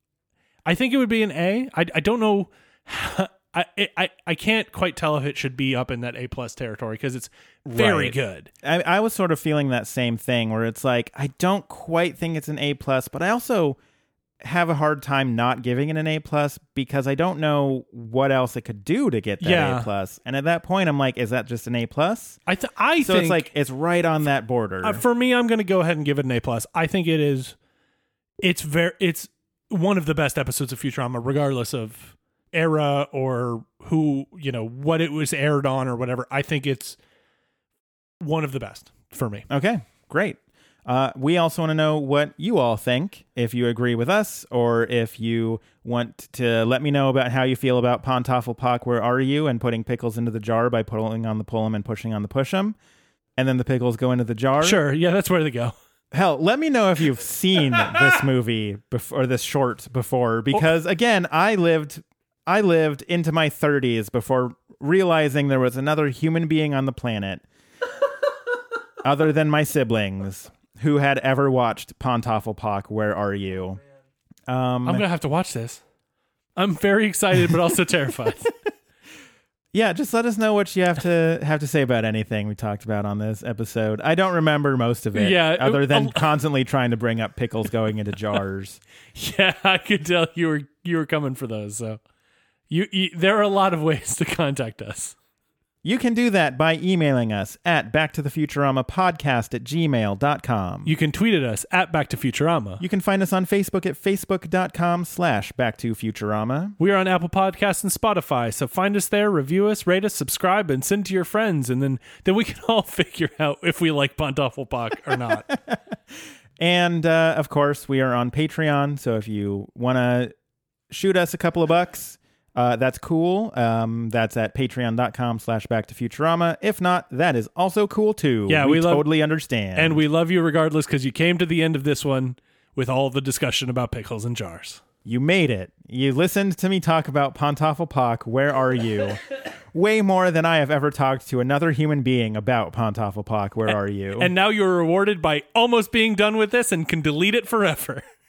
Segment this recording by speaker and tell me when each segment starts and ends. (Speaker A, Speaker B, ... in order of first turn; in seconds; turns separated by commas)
Speaker A: 0.7-8.5, Speaker B: 7.7-13.8, Speaker B: 14.4-22.4, Speaker A: 19.4-19.9, Speaker A: 22.5-23.5, Speaker B: 23.0-25.0, Speaker A: 24.8-27.6, Speaker A: 28.4-37.0, Speaker A: 38.2-39.5, Speaker B: 39.5-52.8, Speaker B: 53.4-54.8, Speaker A: 54.6-55.7, Speaker B: 56.1-67.4, Speaker B: 69.0-73.8, Speaker B: 74.5-75.0, Speaker A: 74.8-75.8, Speaker A: 76.5-78.5, Speaker B: 79.7-88.8, Speaker A: 85.1-86.3, Speaker A: 89.1-92.0, Speaker A: 92.7-95.1, Speaker B: 95.8-100.9, Speaker A: 100.8-102.8, Speaker B: 102.8-106.8, Speaker A: 106.8-115.5, Speaker B: 115.5-116.0, Speaker B: 116.6-120.3, Speaker B: 120.9-130.0, Speaker A: 128.5-129.1, Speaker A: 129.8-134.8, Speaker B: 135.0-144.3, Speaker A: 143.7-148.0